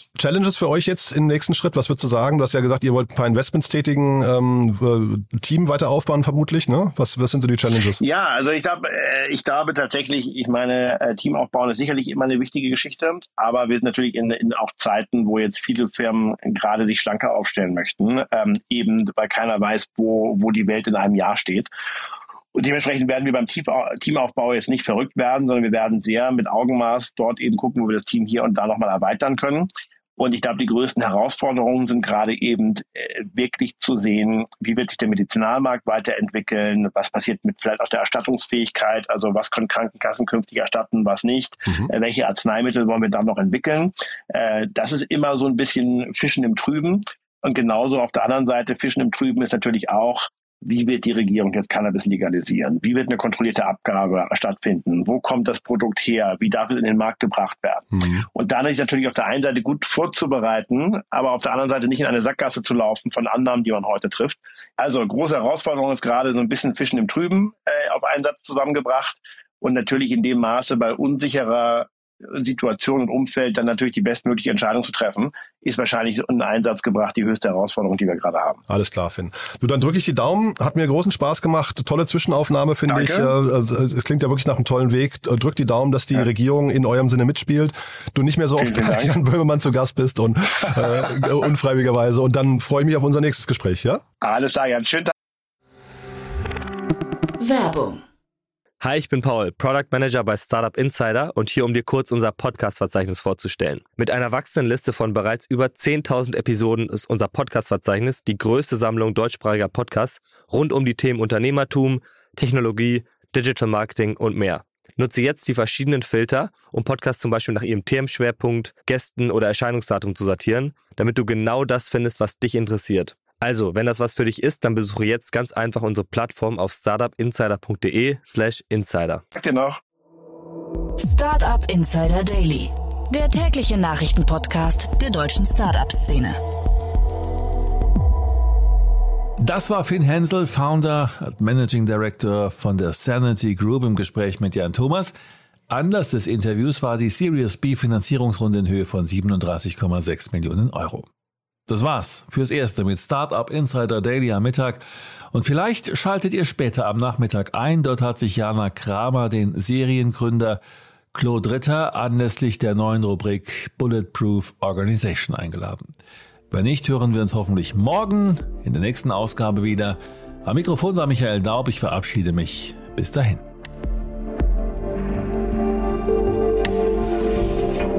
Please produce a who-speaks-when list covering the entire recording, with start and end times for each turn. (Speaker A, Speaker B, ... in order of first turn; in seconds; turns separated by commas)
Speaker A: 0.2-8.0, Speaker B: 8.0-21.7, Speaker B: 22.5-78.6, Speaker A: 57.9-58.2, Speaker A: 78.7-94.0, Speaker B: 82.9-83.3, Speaker B: 88.6-89.2, Speaker B: 94.2-95.1, Speaker C: 97.4-98.0, Speaker D: 98.8-129.2, Speaker B: 129.3-129.8, Speaker C: 131.0-136.4, Speaker E: 139.4-145.1, Speaker E: 145.7-151.1, Speaker E: 151.7-160.6, Speaker E: 161.1-165.9, Speaker E: 166.5-173.4